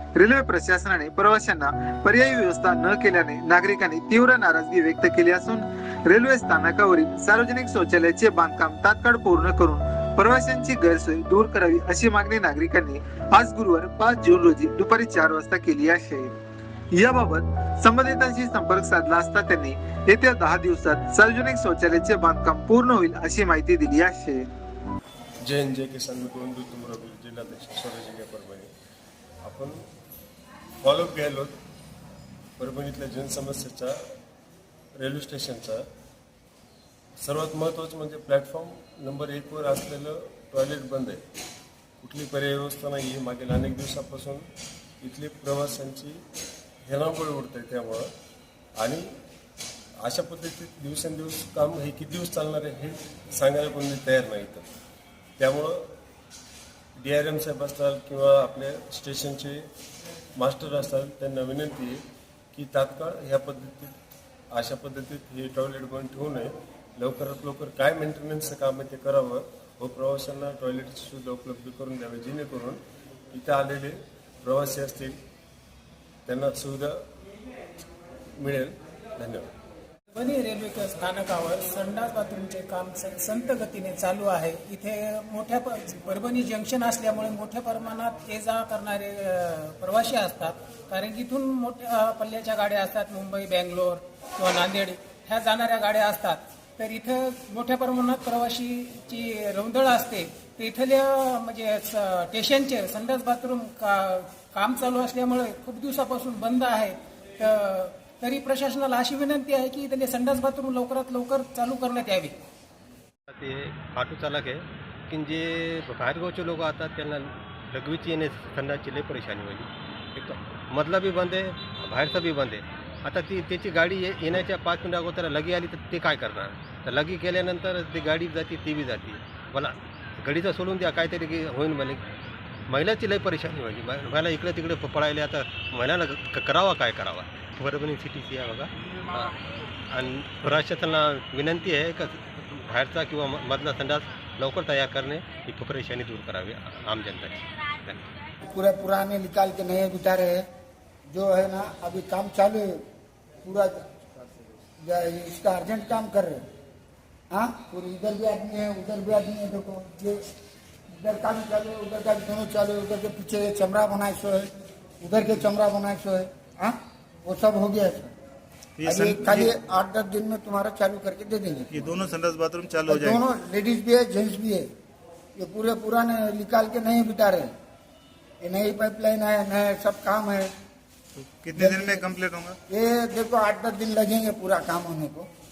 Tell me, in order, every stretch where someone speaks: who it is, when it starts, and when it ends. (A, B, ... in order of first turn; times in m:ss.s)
0:00.2-0:16.3 A
0:16.9-0:24.4 A
0:25.4-0:28.7 B
0:29.4-0:29.8 B
0:30.8-0:31.6 B
0:32.6-0:34.0 B
0:35.0-0:35.8 B
0:37.2-0:41.2 B
0:42.0-0:44.4 B
0:45.0-0:46.2 B
0:46.8-0:48.1 B
0:48.8-0:49.1 B
0:50.0-0:54.7 B
0:55.4-0:55.9 B
0:57.0-0:59.6 B
1:00.4-1:02.0 B
1:02.5-1:03.9 B
1:04.5-1:12.8 B
1:13.3-1:15.2 B
1:16.3-1:17.0 B
1:18.4-1:19.5 B
1:20.1-1:52.4 C
1:53.3-2:12.0 D
2:12.7-2:19.4 D
2:19.9-2:28.0 D
2:28.4-2:30.4 E
2:31.1-2:32.8 E
2:33.4-2:34.2 E
2:34.8-2:36.4 E
2:37.3-2:40.2 E
2:41.0-2:44.5 E
2:45.0-2:48.1 E
2:48.8-2:49.5 F
2:48.8-2:51.8 E
2:51.7-2:53.2 F
2:52.9-2:54.7 E
2:55.4-2:57.5 E
2:58.4-3:00.5 E
3:01.2-3:02.6 F
3:01.5-3:02.1 E
3:02.7-3:05.3 E